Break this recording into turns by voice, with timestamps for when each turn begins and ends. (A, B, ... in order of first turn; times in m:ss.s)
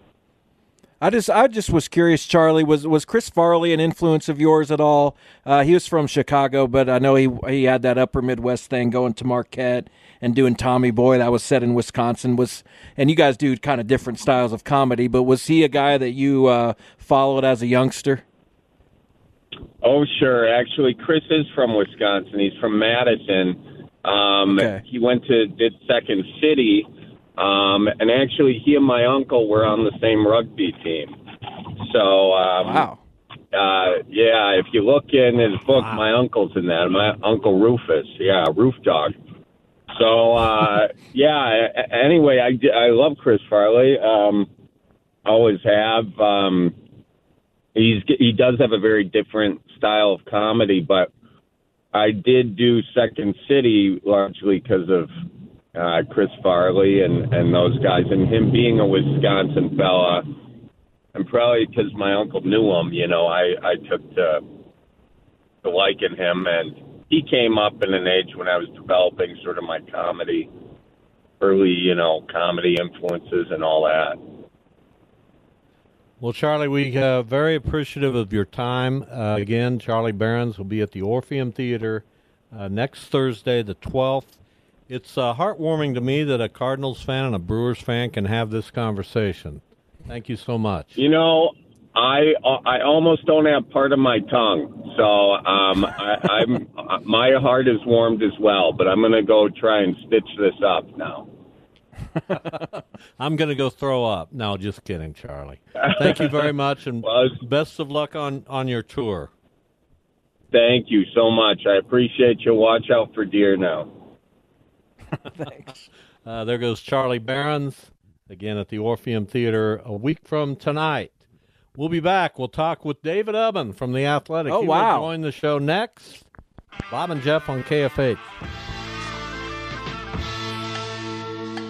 0:01.0-0:18.2 A
0:19.8-0:32.9 B
0:24.5-0:24.8 A
0:32.6-0:33.0 A
0:33.5-0:39.2 B
0:39.9-0:44.5 B
0:45.2-0:46.8 B
0:47.8-0:51.1 B
0:51.9-0:55.1 B
0:55.8-1:00.3 B
1:01.2-1:04.4 B
1:05.6-1:10.5 B
1:11.4-1:14.2 B
1:16.2-1:24.4 C
1:24.9-1:31.0 C
1:31.0-1:41.3 B
1:42.3-1:42.7 C
1:43.2-1:49.3 C
1:45.9-1:46.4 B
1:47.0-1:47.4 B
1:50.5-1:53.9 B
1:55.3-1:55.9 A
1:56.3-2:01.2 C
2:01.8-2:06.3 C
2:04.5-2:05.1 A
2:06.9-2:08.3 C